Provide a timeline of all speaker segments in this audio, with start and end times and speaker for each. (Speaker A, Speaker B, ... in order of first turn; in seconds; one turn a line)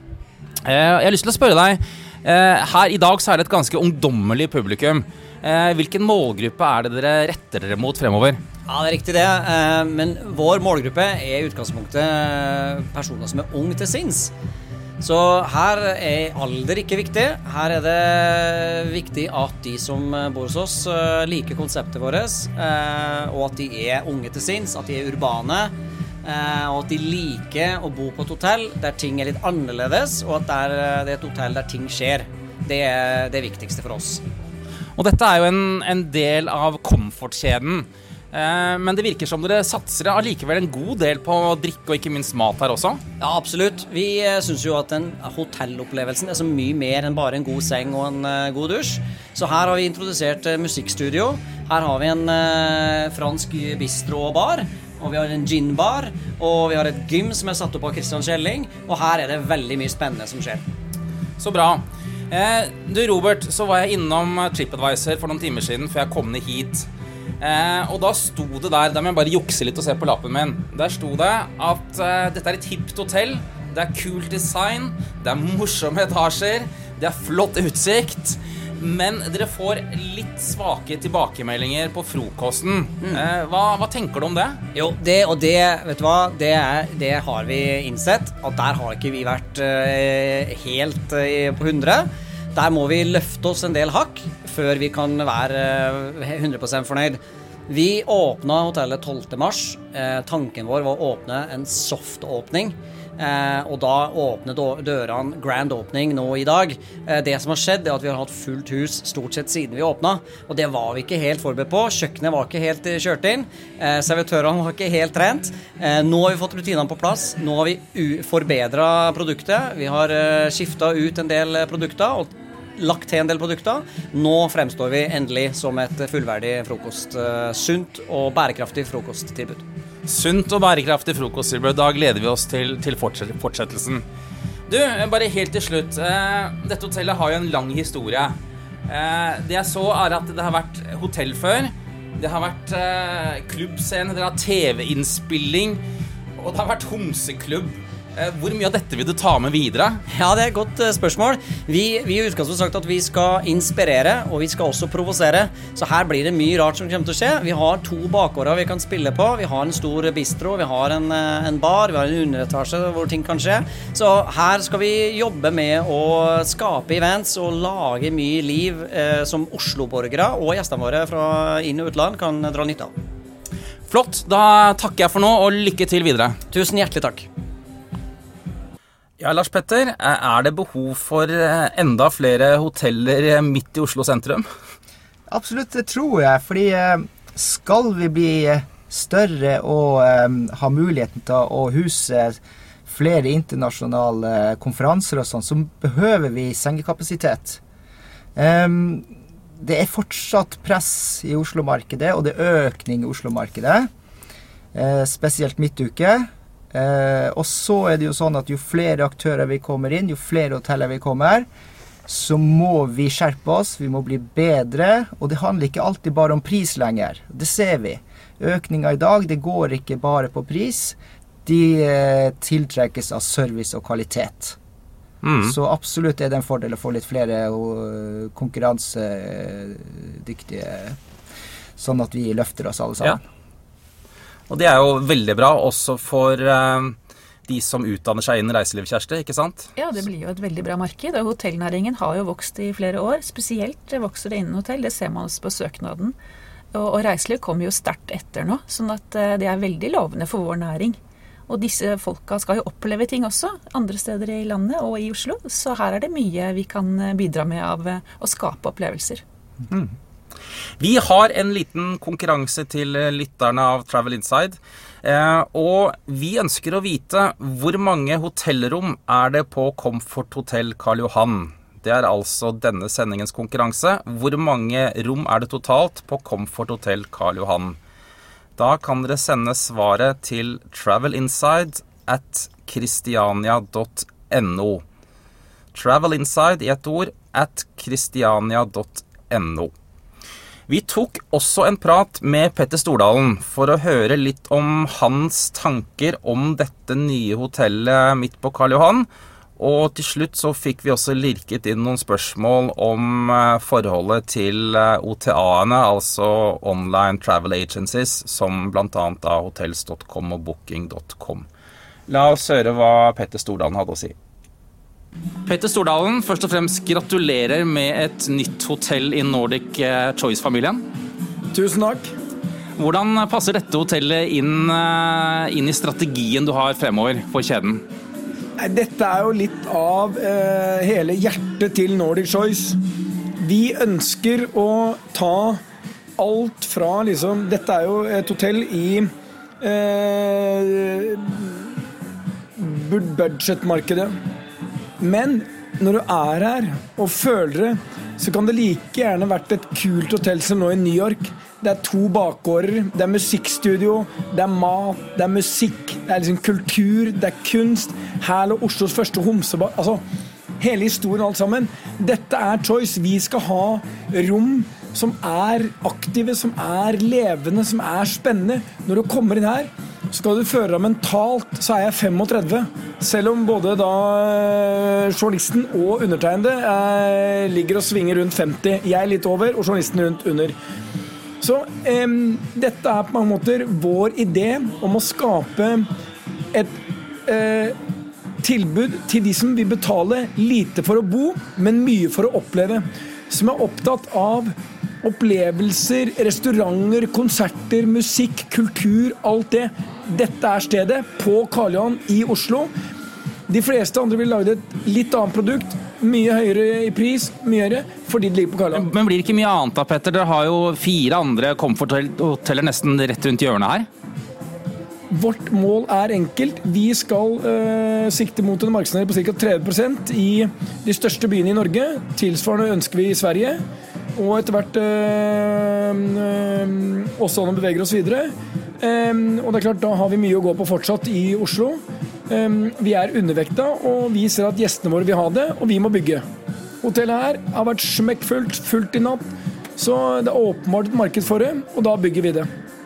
Speaker A: 0.6-8.4
Speaker B: 8.7-14.3
Speaker B: 15.0-25.7
Speaker B: 26.2-34.2
Speaker A: 35.0-43.0
Speaker B: 43.2-60.6
Speaker A: 61.4-66.9
Speaker A: 67.4-84.6
Speaker B: 84.7-129.6
Speaker A: 130.1-134.0
Speaker A: 134.7-138.3
Speaker A: 138.9-145.8
Speaker A: 146.4-150.0
Speaker B: 150.1-172.9
Speaker A: 173.9-176.4
Speaker B: 176.5-177.3
Speaker A: 179.2-184.5
Speaker C: 185.3-197.6
Speaker C: 198.3-199.1
Speaker C: 199.6-203.9
Speaker C: 204.7-211.5
Speaker C: 212.1-224.6
Speaker A: 225.2-225.6
Speaker C: 225.4-231.0
Speaker C: 231.8-233.2
Speaker A: 234.5-236.9
Speaker A: 237.5-239.7
Speaker D: 239.8-246.1
Speaker D: 246.7-259.2
Speaker A: 259.7-259.9
Speaker A: 260.8-277.8
Speaker A: 278.6-284.8
Speaker A: 285.7-289.7
Speaker A: 290.7-311.5
Speaker A: 312.1-314.1
Speaker A: 315.4-320.8
Speaker E: 321.5-322.1
Speaker A: 322.8-327.8
Speaker E: 328.6-332.8
Speaker E: 333.4-335.6
Speaker E: 336.2-339.1
Speaker E: 339.6-341.7
Speaker E: 342.6-344.1
Speaker E: 345.0-360.0
Speaker E: 360.6-380.5
Speaker E: 381.4-385.9
Speaker E: 387.2-387.8
Speaker E: 388.4-402.7
Speaker E: 403.5-408.9
Speaker A: 408.7-413.9
Speaker E: 415.1-423.6
Speaker E: 424.1-436.2
Speaker E: 436.8-439.2
Speaker E: 439.8-442.5